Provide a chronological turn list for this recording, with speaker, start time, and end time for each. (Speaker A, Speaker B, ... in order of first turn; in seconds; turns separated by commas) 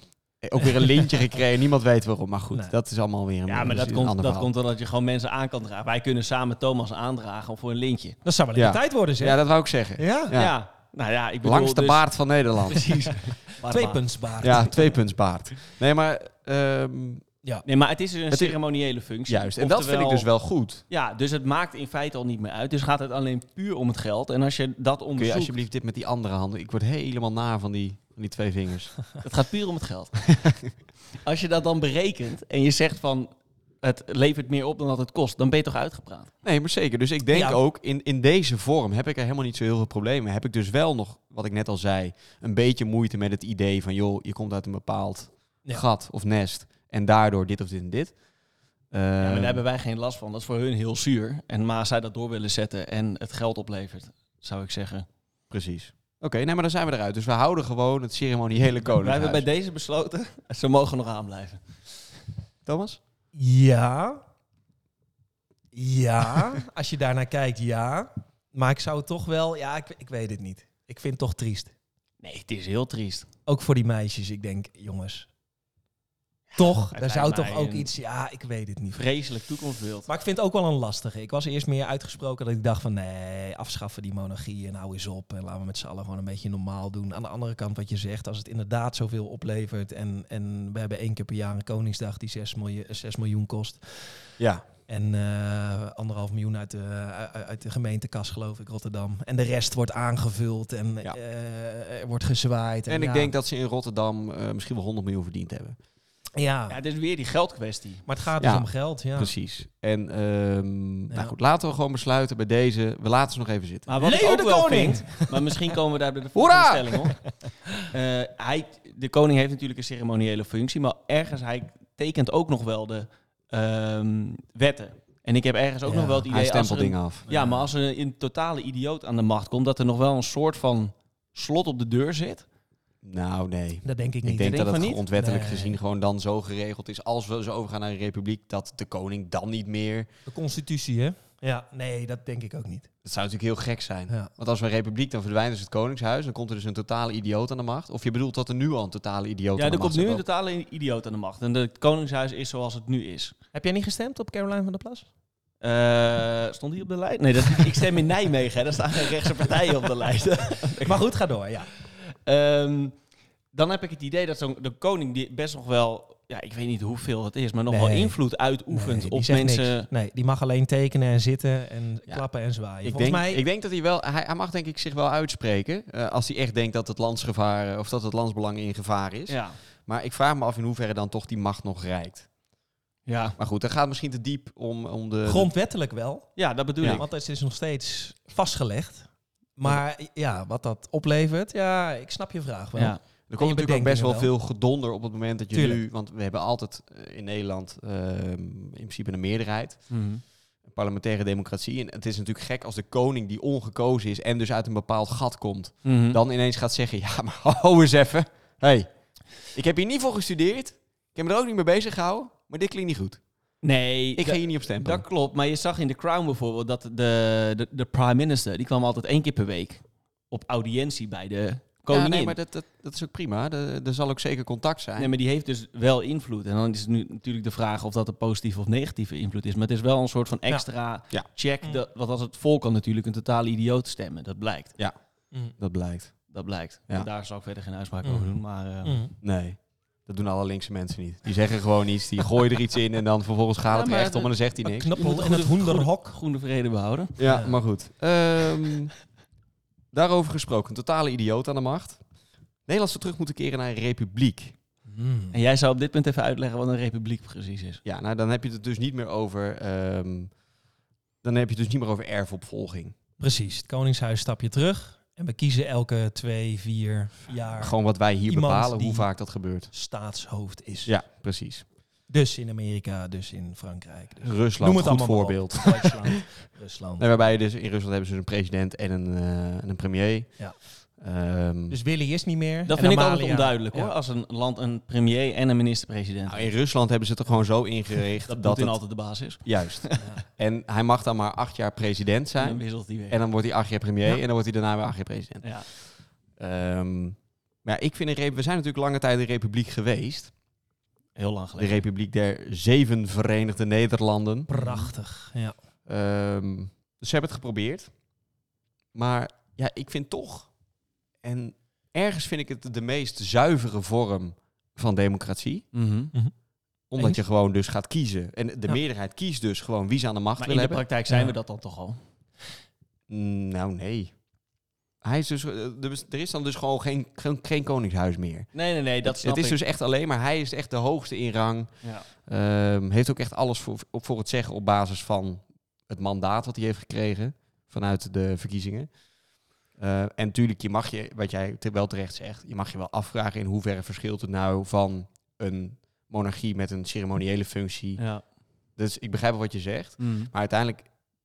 Speaker A: 0.4-4.5, Speaker B: 3.5-8.2, Speaker C: 8.2-9.4, Speaker A: 8.6-10.6, Speaker C: 10.0-10.3, Speaker B: 10.3-12.0, Speaker A: 11.4-12.9, Speaker B: 12.6-14.0, Speaker C: 13.6-14.8, Speaker A: 14.4-17.2, Speaker B: 17.6-20.3, Speaker A: 18.3-18.6, Speaker A: 19.3-20.8, Speaker B: 20.9-25.5, Speaker A: 25.2-29.0, Speaker B: 29.2-30.3, Speaker A: 30.3-30.7, Speaker B: 31.2-33.3, Speaker B: 33.8-36.3, Speaker A: 36.4-48.1, Speaker C: 37.3-37.6, Speaker A: 48.9-49.6, Speaker B: 49.2-55.0, Speaker A: 55.5-59.5, Speaker B: 58.9-61.6, Speaker A: 62.6-63.0, Speaker C: 63.3-64.2, Speaker C: 65.7-71.7, Speaker B: 72.2-73.3, Speaker C: 73.5-75.3, Speaker B: 76.5-77.9, Speaker C: 76.5-79.0, Speaker B: 78.9-80.1, Speaker C: 80.1-94.2, Speaker A: 94.4-94.6, Speaker C: 94.9-103.3, Speaker A: 102.9-105.8, Speaker C: 106.3-106.8, Speaker B: 106.7-108.0, Speaker C: 108.1-109.3, Speaker A: 108.4-113.9, Speaker B: 113.9-117.2, Speaker C: 114.0-115.4, Speaker A: 116.3-117.1, Speaker B: 117.9-132.4, Speaker C: 125.8-126.3, Speaker A: 126.3-127.2, Speaker C: 127.3-127.7, Speaker A: 133.0-140.1, Speaker C: 133.8-135.8, Speaker B: 134.4-135.0, Speaker C: 140.3-142.9, Speaker A: 143.0-150.2, Speaker B: 149.6-153.3, Speaker C: 153.5-155.1, Speaker B: 155.6-161.0, Speaker C: 160.8-161.7, Speaker B: 162.1-162.9, Speaker B: 163.5-169.9, Speaker C: 167.7-168.2, Speaker C: 168.7-173.4, Speaker A: 172.8-182.3, Speaker B: 179.3-179.6, Speaker B: 183.1-183.3, Speaker A: 183.4-185.5, Speaker C: 185.2-194.3, Speaker B: 186.4-187.0, Speaker A: 193.3-199.8, Speaker C: 195.5-195.8, Speaker B: 199.9-200.2, Speaker A: 200.6-208.9, Speaker B: 205.8-206.2, Speaker A: 209.5-213.2, Speaker B: 213.6-222.3, Speaker A: 214.2-215.0, Speaker A: 221.9-225.1, Speaker B: 225.0-234.7, Speaker A: 235.6-236.2, Speaker B: 236.3-239.1, Speaker C: 238.0-239.1, Speaker A: 239.2-244.9, Speaker B: 243.7-244.3, Speaker C: 244.6-246.2, Speaker B: 245.0-247.2, Speaker A: 247.2-248.9, Speaker C: 247.2-247.6, Speaker A: 249.9-252.0, Speaker A: 252.7-254.6, Speaker C: 254.9-255.3, Speaker B: 255.3-257.8, Speaker A: 257.8-260.3, Speaker A: 261.2-262.9, Speaker C: 263.2-269.1, Speaker A: 267.6-269.7, Speaker C: 269.7-270.9, Speaker A: 270.9-271.6, Speaker C: 272.1-277.2, Speaker A: 274.2-276.1, Speaker A: 277.0-280.4, Speaker A: 280.9-281.8, Speaker C: 281.7-283.9, Speaker B: 282.7-286.5, Speaker A: 286.3-288.8, Speaker B: 288.3-290.1, Speaker A: 289.4-295.5, Speaker B: 292.4-293.2, Speaker A: 296.4-300.3, Speaker B: 301.1-301.8, Speaker A: 301.6-304.5, Speaker C: 304.5-305.5, Speaker B: 304.5-304.9, Speaker A: 305.9-307.9, Speaker A: 308.9-310.5, Speaker A: 311.2-315.6, Speaker B: 315.7-316.1, Speaker A: 316.9-320.8, Speaker B: 320.4-322.0, Speaker C: 321.1-321.3, Speaker A: 323.1-324.1, Speaker A: 325.0-328.5, Speaker B: 328.5-329.6, Speaker A: 329.0-331.7, Speaker A: 332.2-338.9, Speaker A: 339.8-348.0, Speaker A: 348.8-350.9, Speaker B: 350.0-350.3